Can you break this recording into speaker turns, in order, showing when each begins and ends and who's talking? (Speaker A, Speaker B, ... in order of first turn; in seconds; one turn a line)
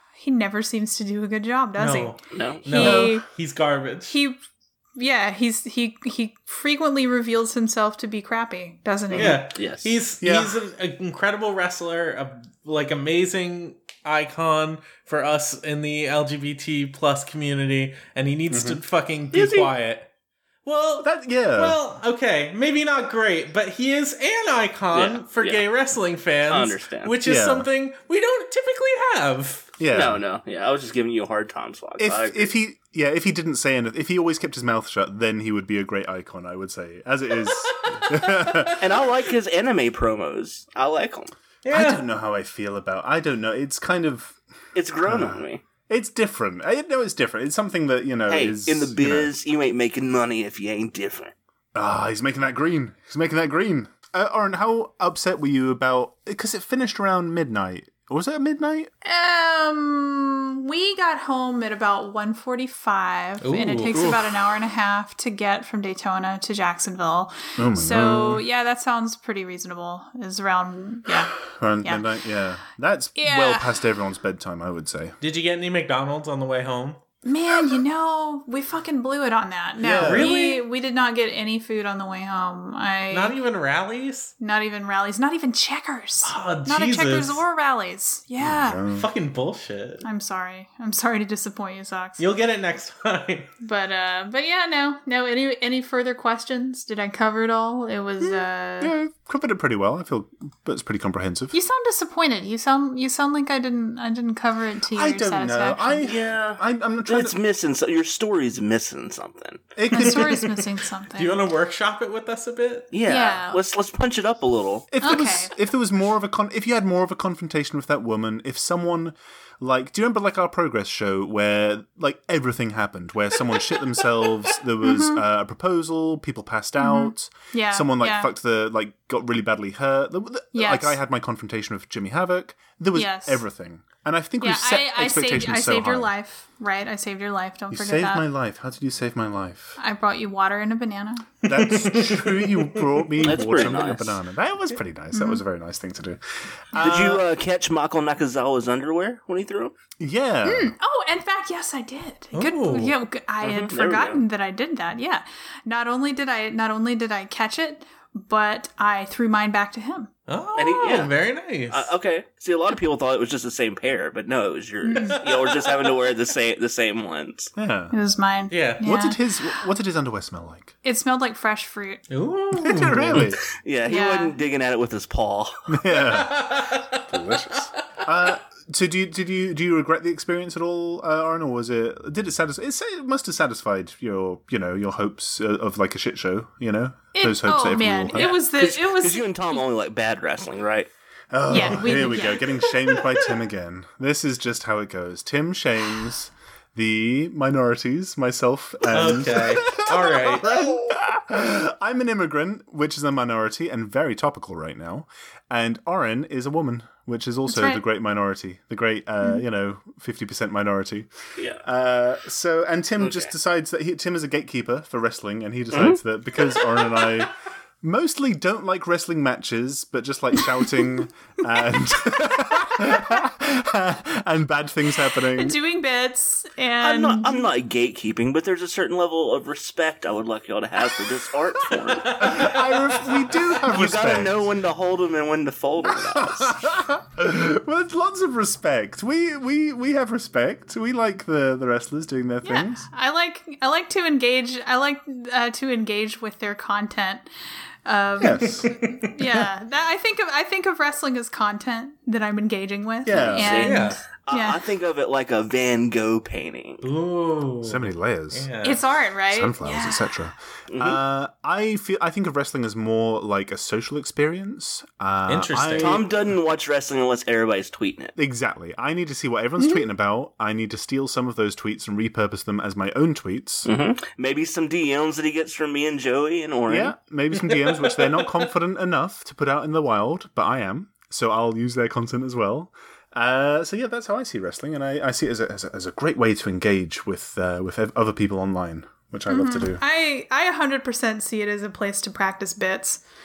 Speaker A: 0.2-3.2
Speaker B: 1.8-4.2
Speaker C: 2.3-2.6
Speaker D: 2.8-3.2
Speaker A: 4.1-4.4
Speaker A: 5.0-9.4
Speaker C: 9.1-9.9
Speaker B: 9.1-20.1
Speaker D: 10.2-10.6
Speaker D: 18.5-18.8
Speaker C: 19.3-19.7
Speaker B: 20.6-29.7
Speaker D: 21.0-21.8
Speaker C: 24.9-25.6
Speaker C: 26.5-27.1
Speaker D: 27.2-27.7
Speaker D: 29.8-30.2
Speaker C: 29.9-32.5
Speaker D: 32.0-38.8
Speaker B: 37.5-38.7
Speaker C: 38.8-41.3
Speaker B: 41.6-42.0
Speaker D: 41.7-44.4
Speaker C: 44.7-45.6
Speaker D: 45.0-49.3
Speaker C: 48.3-51.3
Speaker D: 51.7-58.9
Speaker A: 59.0-72.0
Speaker B: 63.4-64.2
Speaker D: 63.9-64.2
Speaker D: 67.6-68.4
Speaker D: 71.4-75.2
Speaker A: 73.2-73.8
Speaker B: 75.2-77.0
Speaker A: 77.2-83.3
Speaker D: 79.8-80.3
Speaker B: 80.0-80.6
Speaker B: 83.1-84.3
Speaker A: 84.4-88.8
Speaker B: 86.2-87.4
Speaker D: 88.4-89.1
Speaker B: 88.9-90.0
Speaker A: 90.0-92.2
Speaker B: 92.2-93.5
Speaker A: 93.6-98.9
Speaker D: 98.2-101.5
Speaker A: 101.5-106.0
Speaker D: 104.9-107.4
Speaker C: 106.0-109.6
Speaker D: 109.8-110.5
Speaker A: 109.9-111.4
Speaker B: 111.2-112.9
Speaker C: 112.9-114.9
Speaker A: 113.0-113.6
Speaker D: 114.9-136.1
Speaker A: 115.0-115.5
Speaker A: 124.8-125.2
Speaker A: 126.8-128.3
Speaker A: 130.5-131.0
Speaker A: 132.9-133.4
Speaker A: 134.4-138.2
Speaker D: 137.7-139.8
Speaker A: 139.8-141.3
Speaker B: 141.4-143.1
Speaker D: 141.4-147.2
Speaker C: 143.2-144.2
Speaker A: 145.1-145.4
Speaker C: 146.8-149.7
Speaker D: 150.0-150.7
Speaker A: 150.4-160.1
Speaker B: 152.3-152.9
Speaker C: 153.4-154.2
Speaker B: 160.3-161.9
Speaker C: 160.6-161.1
Speaker C: 161.7-167.5
Speaker A: 164.8-165.2
Speaker B: 165.2-165.9
Speaker D: 167.6-167.9
Speaker A: 167.9-169.2
Speaker B: 168.5-168.8
Speaker D: 168.8-170.7
Speaker A: 170.8-172.0
Speaker B: 172.1-173.3
Speaker D: 172.5-173.4
Speaker C: 173.6-175.5
Speaker A: 173.9-174.3
Speaker D: 175.7-176.5
Speaker B: 176.1-177.0
Speaker D: 177.1-188.3
Speaker A: 187.1-189.6
Speaker C: 188.2-190.9
Speaker D: 191.3-211.1
Speaker A: 191.5-192.7
Speaker B: 198.9-200.8
Speaker A: 207.5-207.8
Speaker C: 211.4-211.6
Speaker D: 211.6-225.6
Speaker C: 213.0-213.3
Speaker C: 215.7-216.0
Speaker A: 225.3-227.4
Speaker C: 226.8-232.4
Speaker D: 232.1-234.5
Speaker B: 232.1-232.6
Speaker C: 233.7-236.6
Speaker D: 235.9-242.9
Speaker A: 242.4-247.3
Speaker A: 247.8-254.6
Speaker D: 248.2-248.8
Speaker D: 253.0-253.6
Speaker C: 253.1-256.8
Speaker B: 253.6-254.0
Speaker B: 256.8-258.8
Speaker D: 257.6-258.5
Speaker A: 258.6-260.1
Speaker D: 259.3-266.1
Speaker C: 260.7-261.0
Speaker B: 265.3-266.0
Speaker C: 265.8-268.1
Speaker D: 268.1-273.7
Speaker C: 273.6-276.9
Speaker D: 276.7-289.8
Speaker B: 277.4-278.4
Speaker A: 289.3-293.0